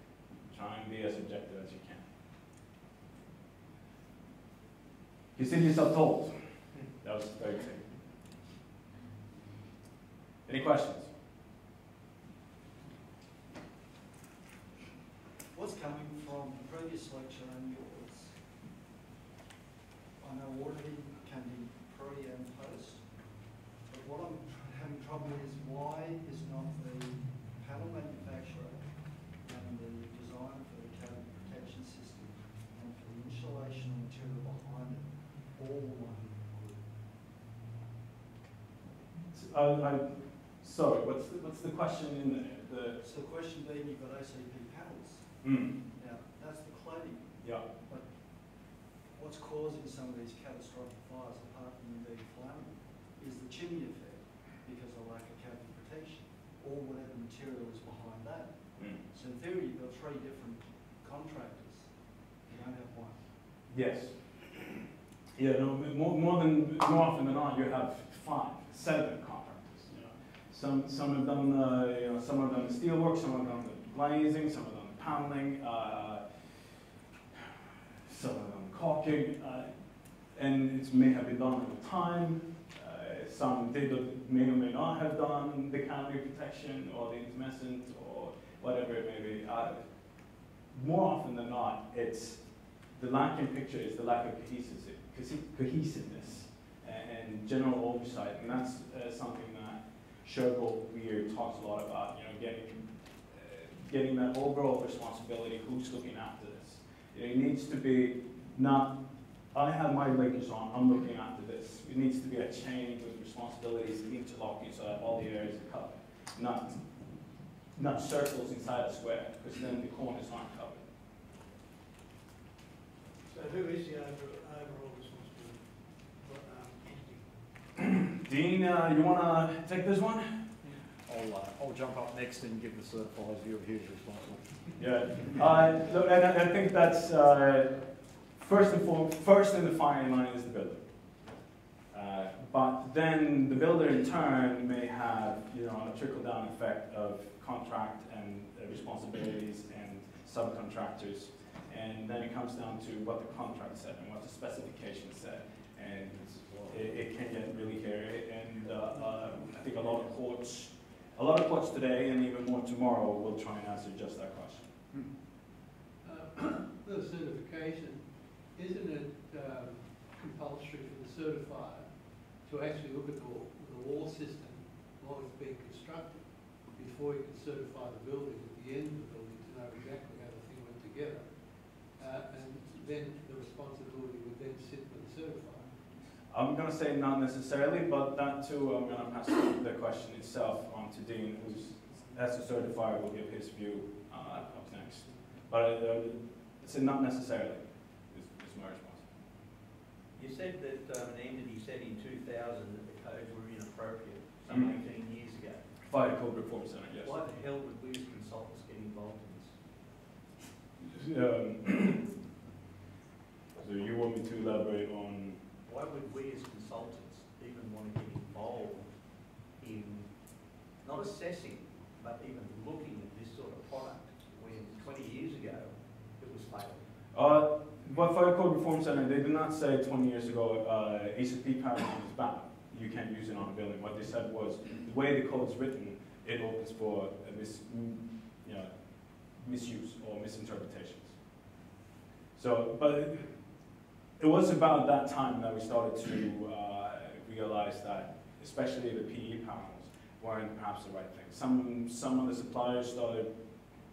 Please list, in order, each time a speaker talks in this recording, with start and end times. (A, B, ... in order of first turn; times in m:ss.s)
0:00.5-0:02.0 A
0:05.4-0:06.3 A
0:07.0-0:07.8 A
0:10.4-0:11.1 A
0:15.5-0:18.3 B
0:20.2-0:23.0 B
0:23.9-0:28.8 B
0:29.4-0:36.9 B
0:39.3-0:43.0 A
0:43.0-0:45.4 B
0:45.4-0:45.7 A
0:45.9-0:47.3 B
0:49.1-0:58.5 B
0:59.1-1:01.9 B
1:02.4-1:03.2 B
1:03.7-1:04.2 A
1:05.4-1:16.6 A
1:18.0-1:19.7 A
1:20.3-1:29.8 A
1:30.7-1:49.0 A
1:49.5-1:56.8 A
1:57.7-2:00.8 A
2:03.3-2:07.4 C
2:08.0-2:10.4 A
2:11.1-2:14.4 D
2:14.8-2:20.8 A
2:21.9-2:44.7 A
2:46.0-3:05.9 E
3:06.3-3:19.1 A
3:20.1-3:25.6 F
3:24.5-3:24.8 A
3:25.8-3:27.2 A
3:27.0-3:29.6 F
3:30.8-3:32.1 A
3:33.6-3:35.4 A
3:35.6-3:40.1 F
3:40.8-3:46.8 F
3:47.1-3:58.7 A
3:59.3-4:01.1 A
4:02.4-4:03.3 A
4:04.2-4:13.3 A